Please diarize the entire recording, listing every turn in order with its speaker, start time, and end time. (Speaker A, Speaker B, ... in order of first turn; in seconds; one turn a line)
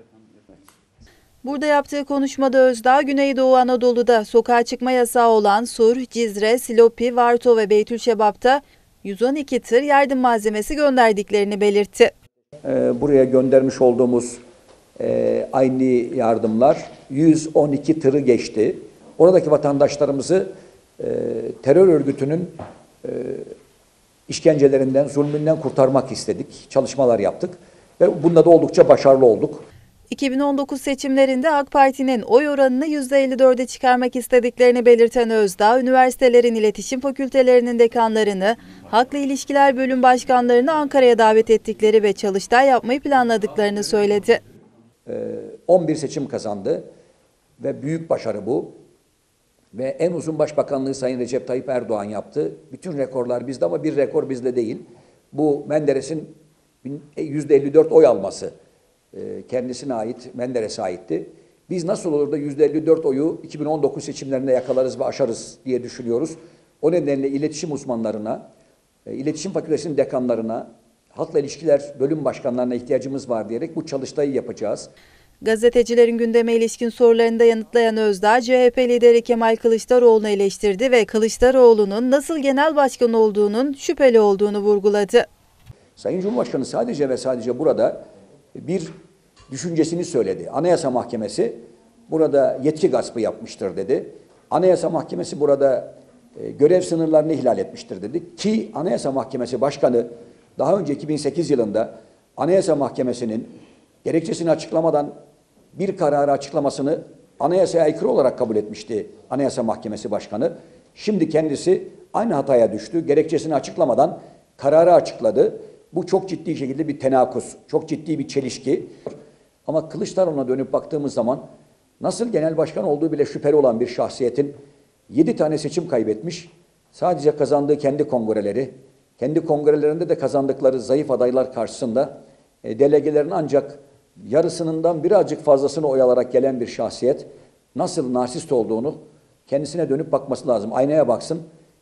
Speaker A: 1.4-12.1
Speaker B: 12.6-14.4
Speaker B: 15.0-23.5
Speaker B: 24.3-29.6
Speaker A: 30.1-44.4
Speaker B: 45.0-46.8
Speaker B: 47.6-48.8
Speaker B: 49.7-58.5
Speaker B: 59.1-68.4
Speaker B: 69.0-74.9
Speaker A: 75.4-85.3
Speaker B: 86.0-88.0
Speaker B: 88.5-88.9
Speaker B: 89.5-103.5
Speaker B: 104.0-105.1
Speaker B: 105.7-118.9
Speaker B: 119.7-121.4
Speaker B: 122.0-124.5
Speaker B: 125.1-132.1
Speaker B: 132.6-141.4